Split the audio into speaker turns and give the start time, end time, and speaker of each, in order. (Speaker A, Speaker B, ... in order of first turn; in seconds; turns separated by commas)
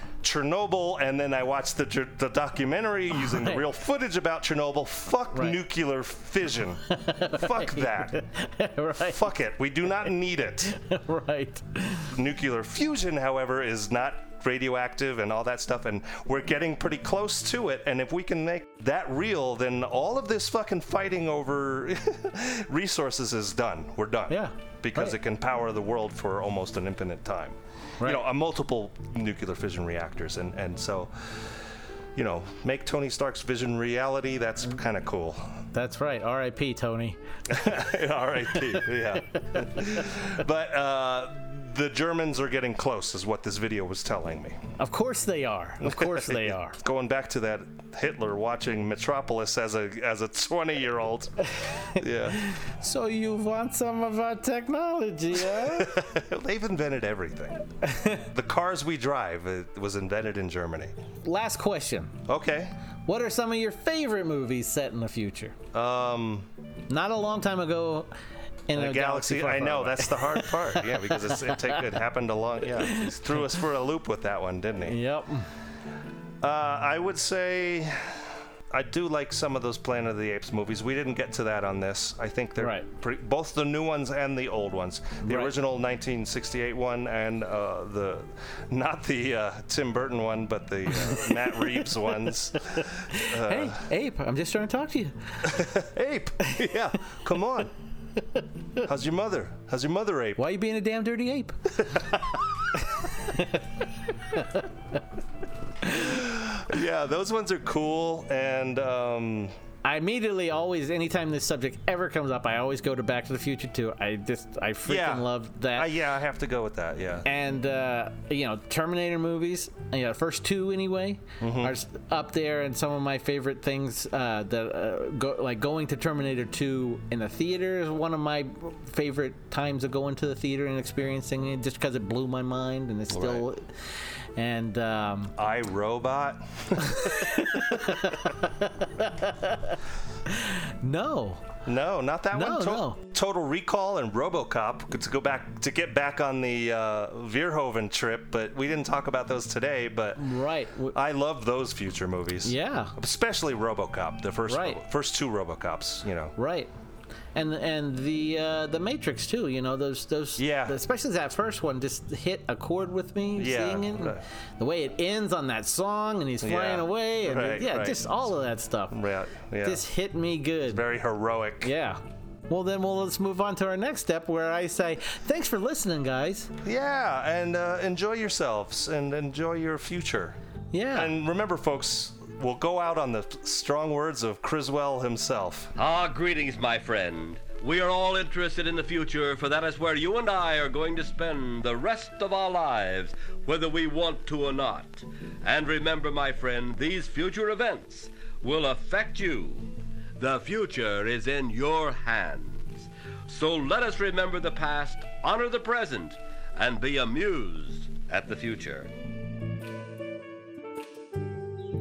Speaker A: 0.2-8.2, Speaker B: 3.1-3.6, Speaker B: 6.9-9.2, Speaker A: 9.0-10.7, Speaker B: 10.7-12.1, Speaker A: 12.1-31.1, Speaker B: 24.3-25.2, Speaker A: 32.2-35.5, Speaker B: 35.7-37.2, Speaker A: 37.5-44.6, Speaker B: 44.8-46.8, Speaker A: 45.8-51.3, Speaker A: 52.0-52.4, Speaker B: 52.3-55.9, Speaker A: 55.4-60.9, Speaker B: 57.9-58.2, Speaker B: 61.2-62.2, Speaker A: 62.3-62.7, Speaker B: 63.1-65.6, Speaker A: 65.7-66.5, Speaker B: 66.9-68.1, Speaker B: 68.7-71.8, Speaker A: 68.8-75.0, Speaker B: 72.8-73.4, Speaker B: 74.9-75.5, Speaker A: 76.4-93.8, Speaker B: 82.6-82.9, Speaker B: 85.2-85.5, Speaker B: 91.1-91.6, Speaker B: 93.1-95.1, Speaker A: 95.5-97.7, Speaker A: 98.8-100.4, Speaker B: 100.4-101.6, Speaker B: 102.9-103.7, Speaker B: 104.3-104.7, Speaker B: 105.8-106.2, Speaker A: 106.1-109.5, Speaker B: 109.8-115.9, Speaker A: 114.8-117.3, Speaker B: 117.2-133.7, Speaker A: 121.4-121.8, Speaker A: 133.1-133.4, Speaker B: 134.4-135.3, Speaker A: 135.4-137.9, Speaker B: 136.8-141.4, Speaker A: 141.7-150.2, Speaker B: 142.3-143.0, Speaker B: 150.2-150.9, Speaker A: 150.9-156.3, Speaker B: 152.4-152.9, Speaker B: 154.5-154.8, Speaker B: 156.4-156.7, Speaker B: 157.3-168.9, Speaker A: 160.4-160.8, Speaker A: 163.4-164.2, Speaker A: 166.4-168.2, Speaker A: 168.9-169.8, Speaker B: 169.6-170.8, Speaker A: 170.7-171.7, Speaker B: 171.6-176.5, Speaker A: 176.6-180.4, Speaker B: 180.7-181.1, Speaker A: 180.9-185.7, Speaker C: 185.8-208.9